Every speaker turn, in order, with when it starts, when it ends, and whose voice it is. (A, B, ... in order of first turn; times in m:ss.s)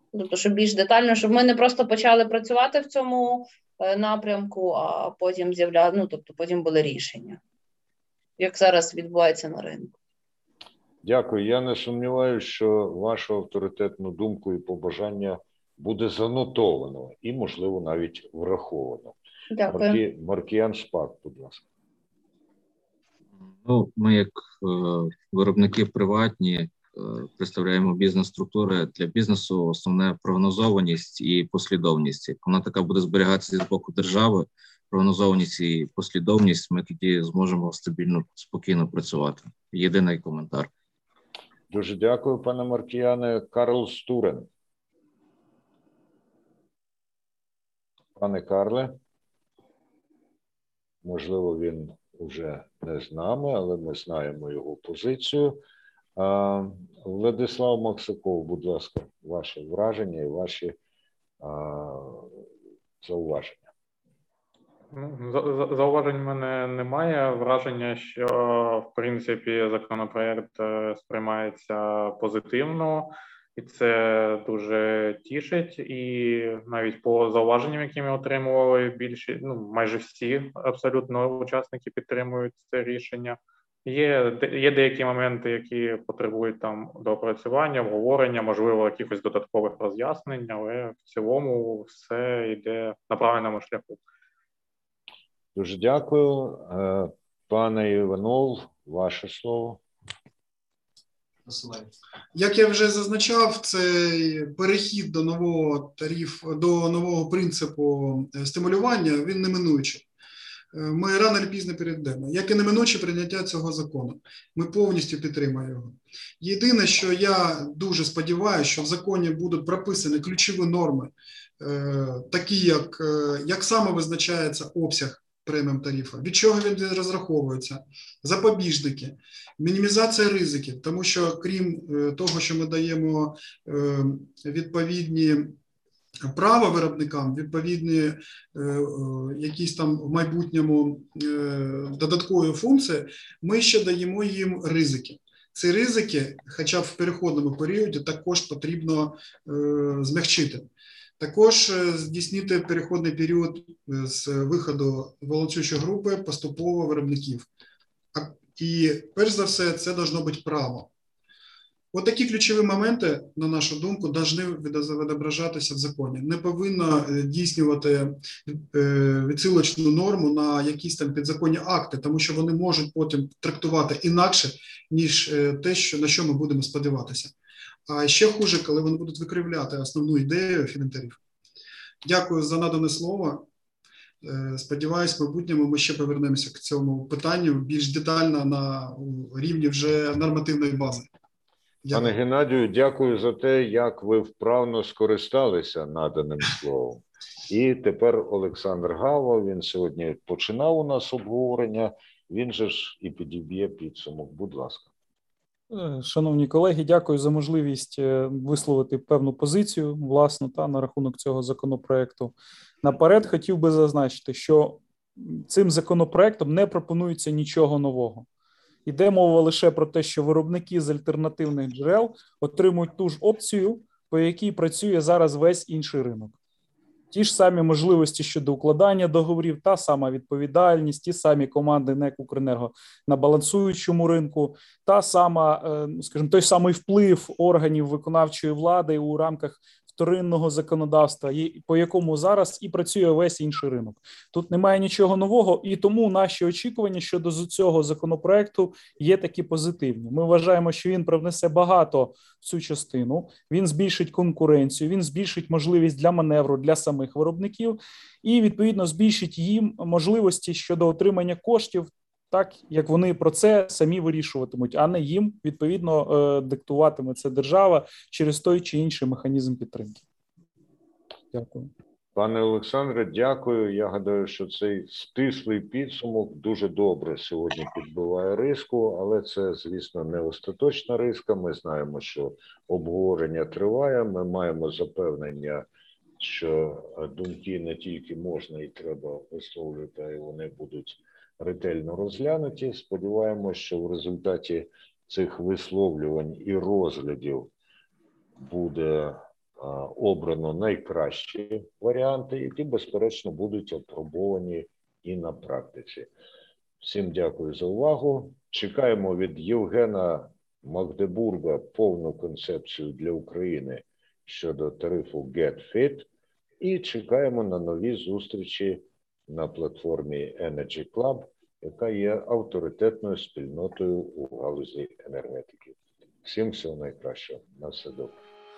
0:00.1-0:07.4 A
0:08.4-0:09.9 A
0:11.0-0:19.1 B
0:19.5-0:20.0 A
0:19.7-0:21.6 B
0:23.5-0:40.7 C
0:41.7-0:44.5 B
0:48.2-0:49.0 B
0:51.0-0:55.6 B
0:56.2-1:00.8 B
1:01.4-1:02.4 B
1:03.0-1:03.7 B
1:04.9-1:34.0 D
1:35.5-1:39.8 B
1:42.3-1:50.0 E
1:50.7-2:15.6 E
2:16.3-2:30.6 E
2:31.2-2:37.5 E
2:38.1-2:40.9 E
2:41.9-2:57.3 E
2:57.9-3:01.2 E
3:02.0-3:03.5 E
3:04.2-3:11.1 E
3:11.8-3:12.1 E
3:11.9-3:24.9 B
3:25.7-3:38.2 F
3:38.8-3:46.4 F
3:47.1-4:30.0 F
4:31.3-4:31.7 F
4:32.1-4:45.6 B
4:46.2-4:57.5 B
4:58.4-5:06.1 B
5:06.8-5:16.1 B
5:16.6-5:28.2 B